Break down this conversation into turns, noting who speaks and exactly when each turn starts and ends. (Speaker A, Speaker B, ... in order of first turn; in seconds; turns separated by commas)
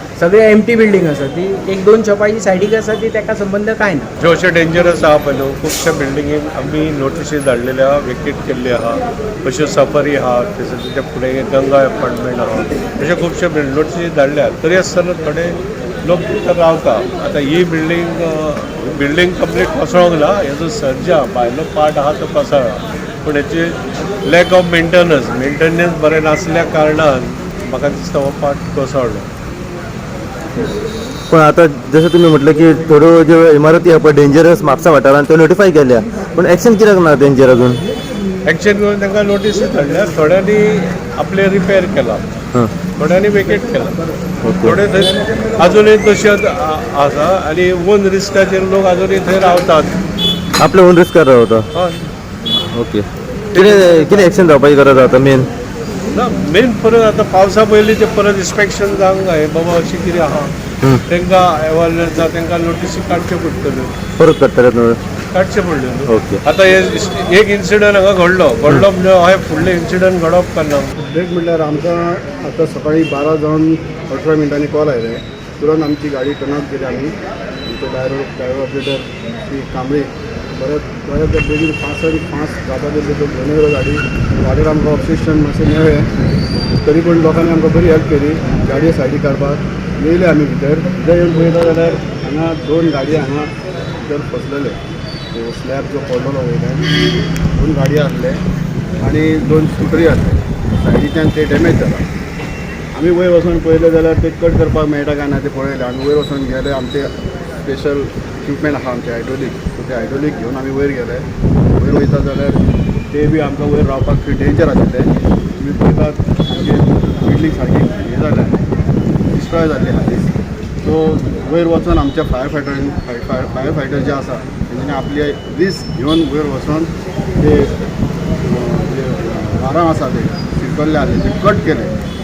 Speaker A: 0.2-4.1, Speaker B: 4.2-29.2, Speaker C: 31.3-37.8, Speaker B: 38.5-42.2, Speaker B: 43.0-44.0, Speaker C: 44.4-44.8, Speaker B: 44.6-49.9, Speaker C: 50.6-51.6, Speaker B: 51.7-52.1, Speaker C: 52.6-55.5, Speaker B: 53.5-54.3, Speaker B: 56.1-60.5, Speaker B: 61.1-63.9, Speaker C: 64.2-65.0, Speaker B: 65.3-70.9, Speaker C: 66.1-66.4, Speaker D: 71.0-77.1, Speaker D: 77.7-86.1, Speaker D: 86.8-94.8, Speaker D: 95.3-96.9, Speaker D: 97.5-98.4, Speaker D: 99.0-102.0, Speaker D: 102.9-111.2, Speaker D: 111.8-112.6, Speaker D: 113.1-118.6, Speaker D: 119.3-120.3, Speaker D: 120.8-127.8, Speaker D: 128.4-131.9